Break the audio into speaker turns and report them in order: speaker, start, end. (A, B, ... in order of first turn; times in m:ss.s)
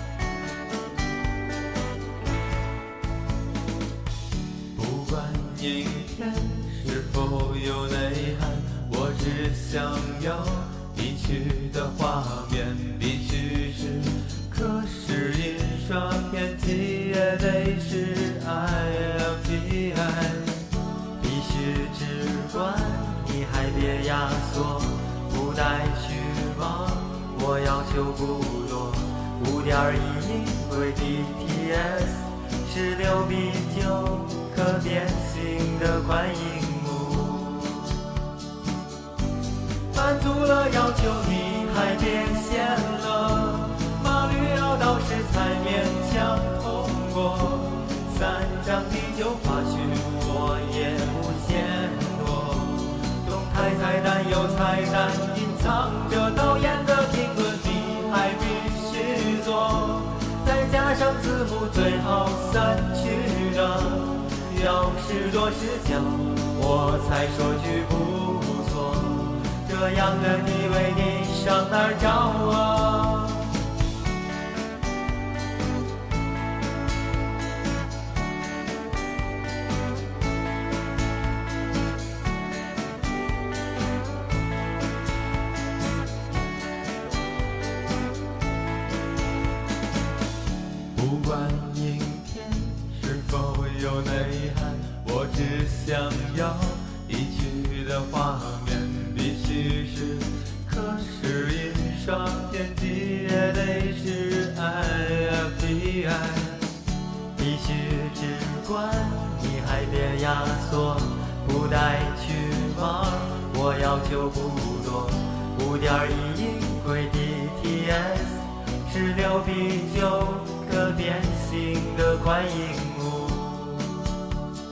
0:04.7-0:37.9 A
0:39.9-1:13.5 A
1:30.9-1:46.7 A
1:47.3-2:04.0 A